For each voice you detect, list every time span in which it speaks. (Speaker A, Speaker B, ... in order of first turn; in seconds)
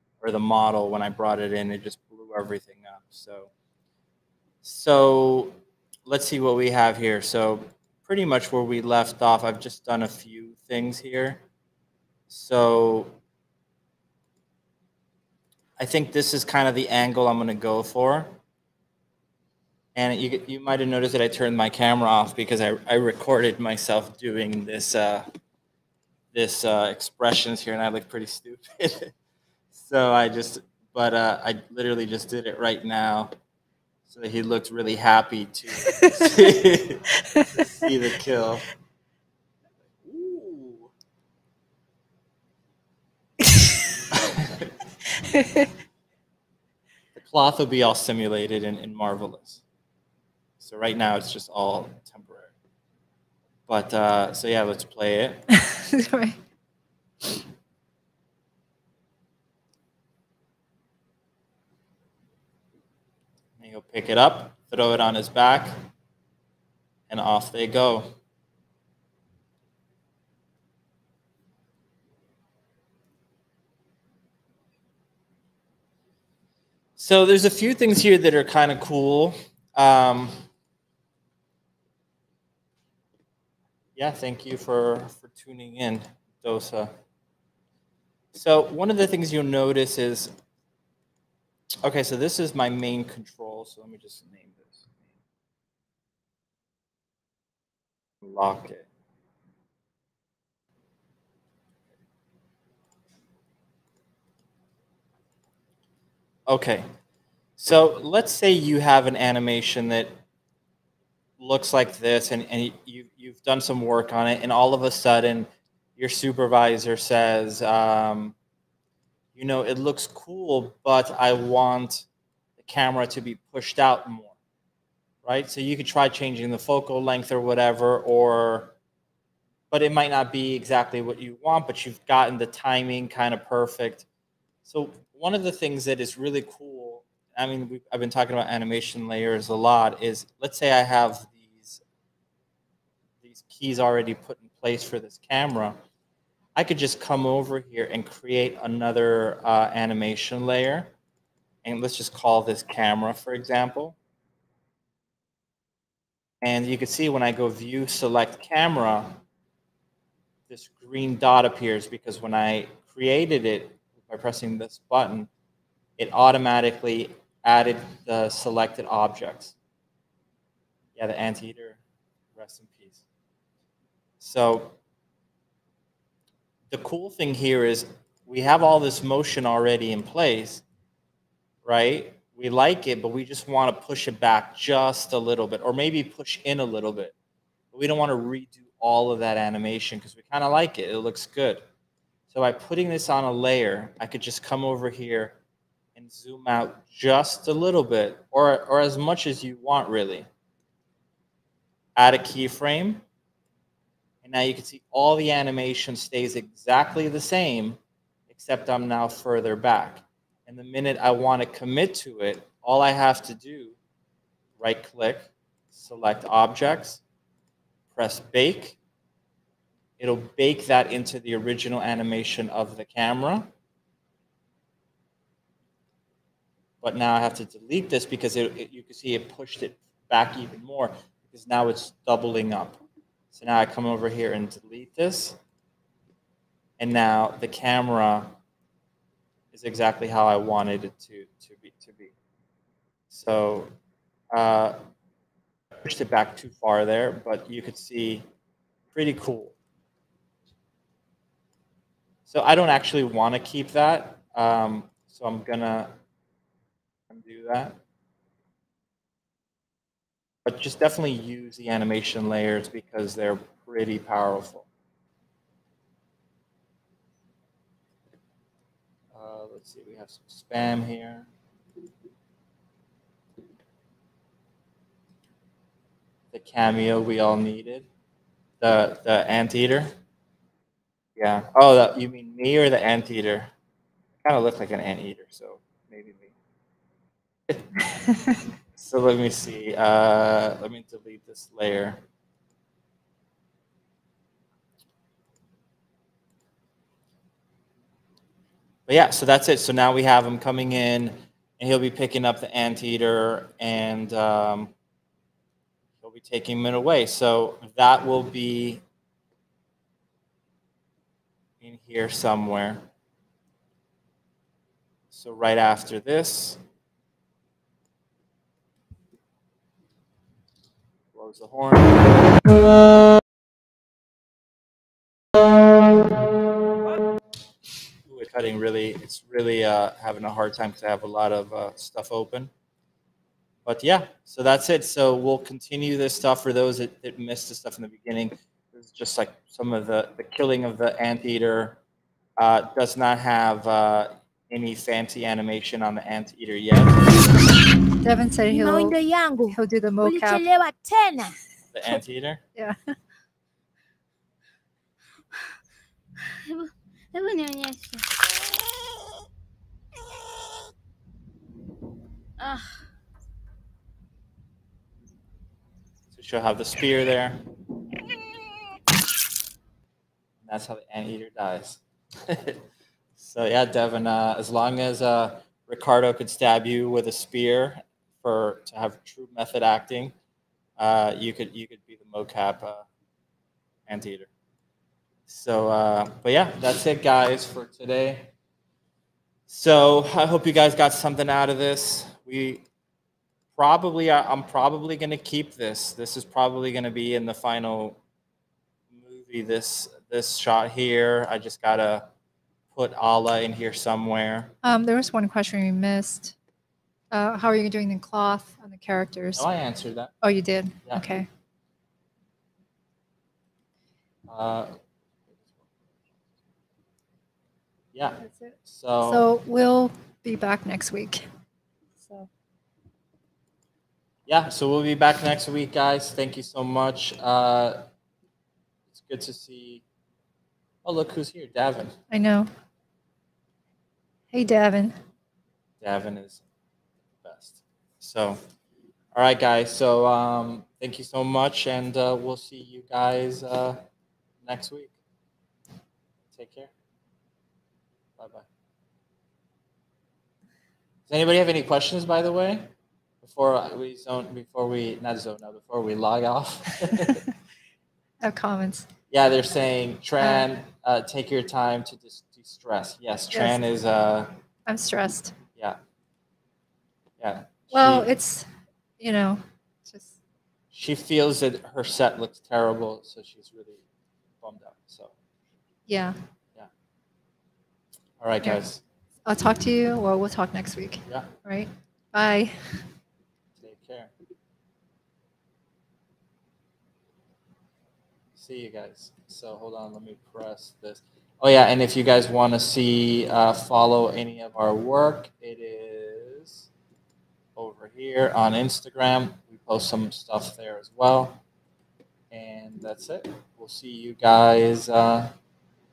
Speaker A: 0.2-3.5, 4.6-11.4, 12.3-13.1, 15.8-18.4, 19.9-25.3, 26.3-29.1, 29.7-33.3, 34.1-38.7, 40.0-40.9, 44.1-44.7, 47.1-49.6, 50.6-52.5, 53.7-55.4, 63.6-65.7, 67.1-68.1, 77.0-80.5, 84.0-86.9, 88.3-90.3, 91.8-95.0, 98.2-98.9, 106.5-106.9, 107.6-110.2, 111.4-118.4, 119.3-122.1, 122.6-124.3, 125.2-128.7, 129.7-134.1, 134.7-141.8, 143.2-145.8, 146.6-150.9, 151.6-154.0, 156.4-159.2, 160.5-165.3, 166.0-169.6, 170.9-171.8, 172.4-173.1, 174.2-174.7, 176.7-180.6, 181.6-187.1, 187.7-191.6, 192.3-195.4, 195.9-200.3, 201.9-203.0, 204.2-207.8, 208.3-213.8, 214.6-217.0, 217.9-218.8, 220.0-223.5, 226.8-235.4, 236.8-238.4, 239.5-242.1, 243.1-243.7, 244.3-244.8, 245.8-248.3, 248.9-249.6, 252.3-255.9, 257.1-257.8, 260.4-264.7, 269.1-271.3, 276.3-277.9, 278.6-279.9, 281.2-283.5, 284.2-286.3, 287.5-288.0, 288.8-292.0, 298.9-304.7, 306.0-308.8, 311.6-312.9, 315.1-316.6, 321.1-322.5, 328.1-332.5, 333.6-341.8, 342.4-347.1, 351.7-352.4, 366.1-367.4, 370.4-372.6, 373.2-380.1, 380.8-382.9, 383.9-384.3, 385.3-388.3, 389.5-392.6, 393.6-398.0, 398.9-402.1, 402.7-404.5, 409.4-410.1, 414.3-414.7, 415.3-415.6, 417.9-419.3, 424.3-427.8, 428.9-429.8, 430.8-431.9, 435.8-436.4, 437.2-438.4, 439.1-443.8, 444.4-444.9, 446.3-446.7, 448.2-448.4, 451.1-452.7, 453.2-457.3, 459.1-464.3, 467.2-468.1, 470.7-473.9, 474.4-475.1, 478.2-478.8, 483.6-484.1, 488.4-496.7, 497.6-501.4, 502.3-505.3
Speaker B: 45.3-45.7, 55.5-56.4, 348.0-348.9, 349.5-350.4, 352.6-352.9, 404.6-406.4, 407.1-409.4, 410.2-411.3, 418.2-421.3, 422.0-422.3, 432.1-432.5, 434.3-434.9, 458.2-458.9, 460.2-460.4, 463.3-463.6, 464.7-465.4, 467.7-468.5, 469.0-470.2, 475.9-476.2, 479.2-482.8
Speaker C: 348.5-351.4
Speaker D: 356.2-358.1, 362.4-362.8